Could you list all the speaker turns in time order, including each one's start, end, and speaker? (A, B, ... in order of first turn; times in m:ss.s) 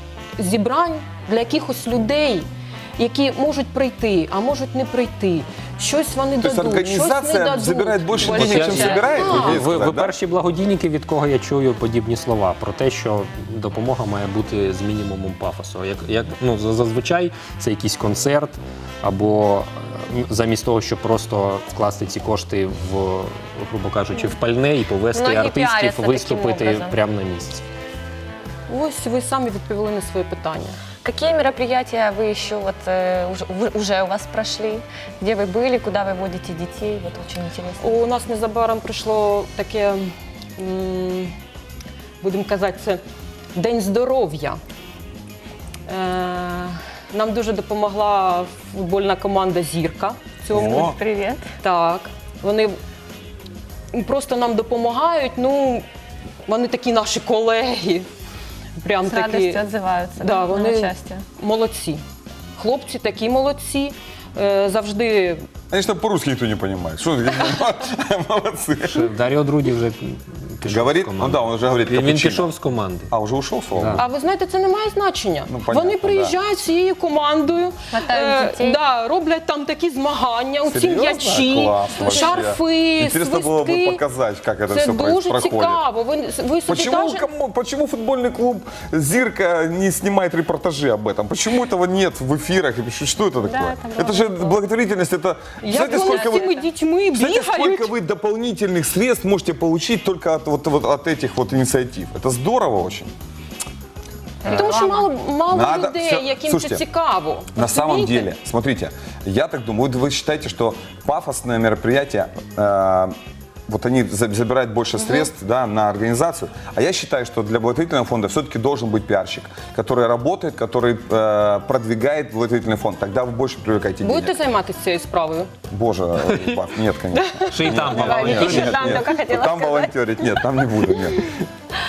0:00.4-0:09.6 A
0:06.4-0:10.1 B
0:08.2-0:27.6 C
0:25.1-0:27.0 D
0:28.7-0:30.8 A
0:31.0-0:38.0 D
0:37.8-0:41.3 A
0:42.2-0:43.0 A
0:43.5-0:44.6 A
0:45.9-0:51.0 A
0:50.5-0:50.9 B
0:50.6-0:51.4 D
0:51.6-0:52.8 A
0:53.9-0:55.8 A
0:56.5-0:58.1 A
0:58.8-0:59.6 A
0:59.0-1:01.2 D
1:00.2-1:02.0 A
1:02.6-1:05.4 A
1:05.7-1:09.1 B
1:08.8-1:13.1 C
1:10.6-1:12.5 B
1:13.1-1:14.0 B
1:13.7-1:14.0 C
1:13.9-1:24.0 A
1:15.5-1:16.3 B
1:17.9-1:18.8 D
1:20.7-1:25.8 B
1:22.0-1:22.4 D
1:24.7-1:27.2 A
1:26.7-1:36.5 B
1:33.4-1:34.6 D
1:35.6-1:37.9 A
1:35.7-1:36.6 D
1:37.1-1:43.1 B
1:44.4-1:45.1 D
1:44.4-1:44.7 B
1:44.5-1:48.3 A
1:45.5-1:46.8 B
1:47.5-1:53.1 B
1:53.7-2:04.3 B
2:04.0-2:05.5 A
2:05.7-2:11.3 B
2:06.3-2:06.6 C
2:07.2-2:08.0 A
2:07.5-2:09.1 C
2:08.0-2:11.0 D